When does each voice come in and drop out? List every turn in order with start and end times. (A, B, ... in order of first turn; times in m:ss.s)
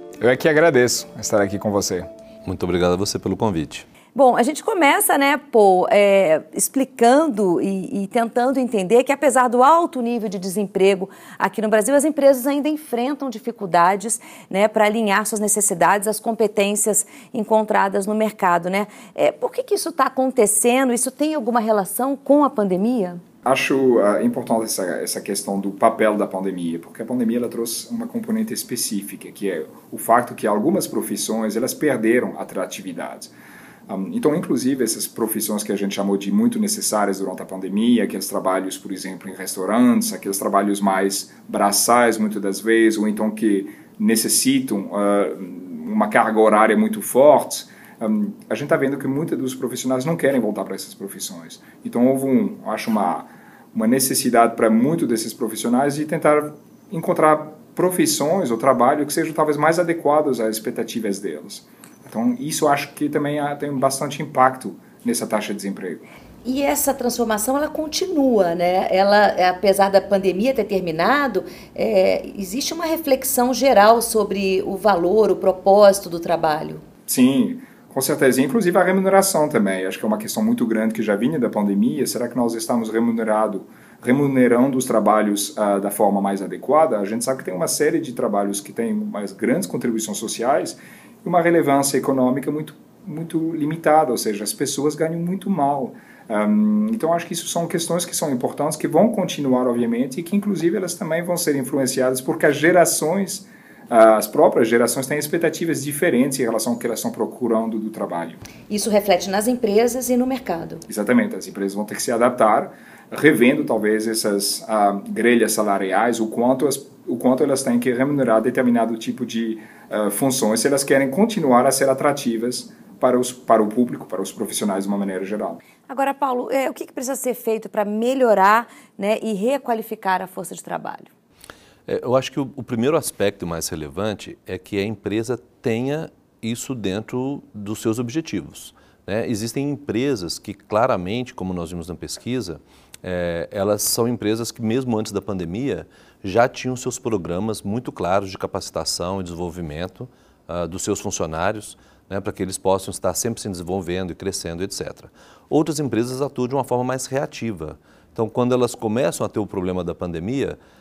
0:00.2-0:02.0 A
0:02.4-0:03.8 B
0:04.1-0:23.2 C
0:23.4-0:33.3 A
0:33.9-1:06.0 A
1:06.4-1:16.8 C
1:17.1-1:48.4 A
1:48.7-1:50.8 C
1:50.9-2:05.6 A
2:05.9-2:11.1 C
2:11.9-2:40.6 B